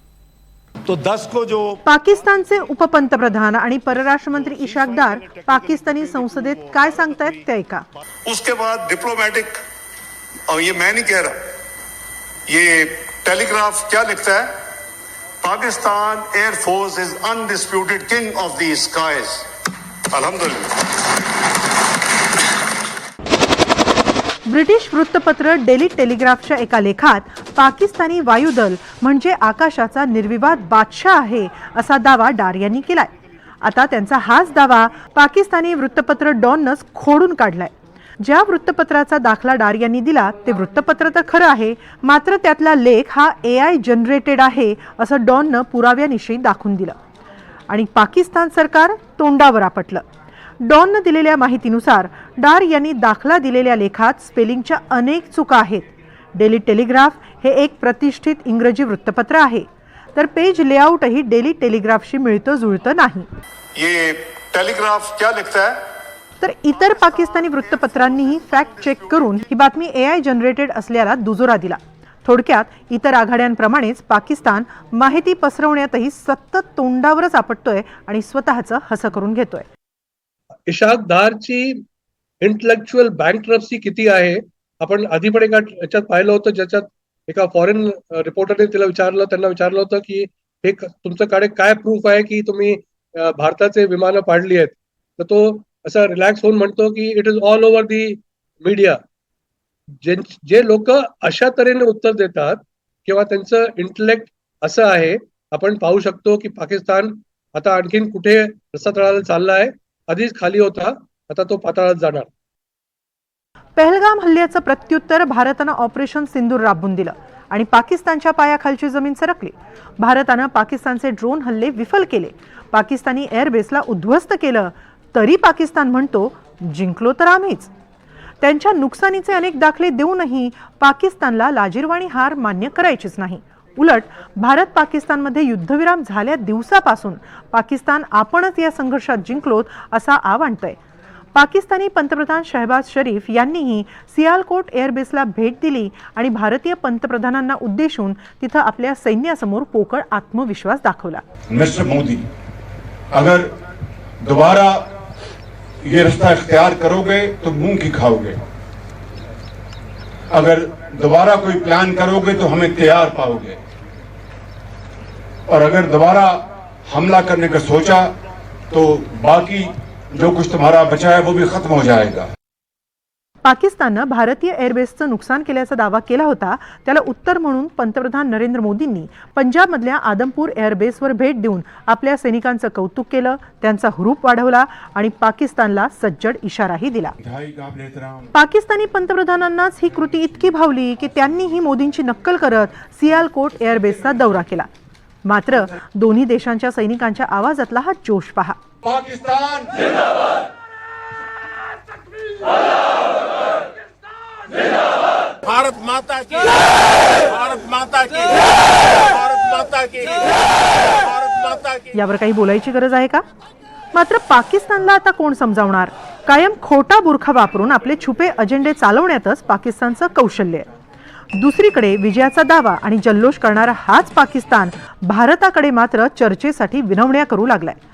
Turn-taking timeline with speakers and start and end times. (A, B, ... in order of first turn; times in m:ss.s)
0:00.8-0:01.8 A
0:01.8-0:07.9 B
0:05.0-0:07.3 A
0:08.2-0:09.6 A
0:10.5-0:11.4 A
0:12.5-0:14.6 A
0:15.4-0:19.4 A
0:20.1-0:20.8 A
0:24.5-0:33.1 B
0:33.6-0:47.0 B
0:47.7-0:50.0 B
0:50.6-1:03.3 B
1:03.8-1:05.8 A
1:06.4-1:19.7 B
1:06.9-1:09.3 A
1:20.7-1:21.8 C
1:22.4-1:39.0 C
1:40.0-1:52.3 C
1:53.8-2:07.7 B
2:08.4-2:20.8 B
2:21.3-2:31.2 B
2:31.5-2:32.2 D
2:33.1-2:33.5 D
2:34.2-2:34.9 D
2:35.8-2:38.4 D
2:40.3-2:43.6 D
2:45.5-2:48.1 D
2:48.7-2:52.3 D
2:53.4-3:07.1 B
3:07.2-3:08.3 D
3:08.3-3:14.7 B
3:15.2-3:18.6 B
3:18.8-3:19.7 D
3:25.4-3:31.9 E
3:31.9-3:33.2 B
3:33.9-3:40.7 B
3:41.3-3:47.8 B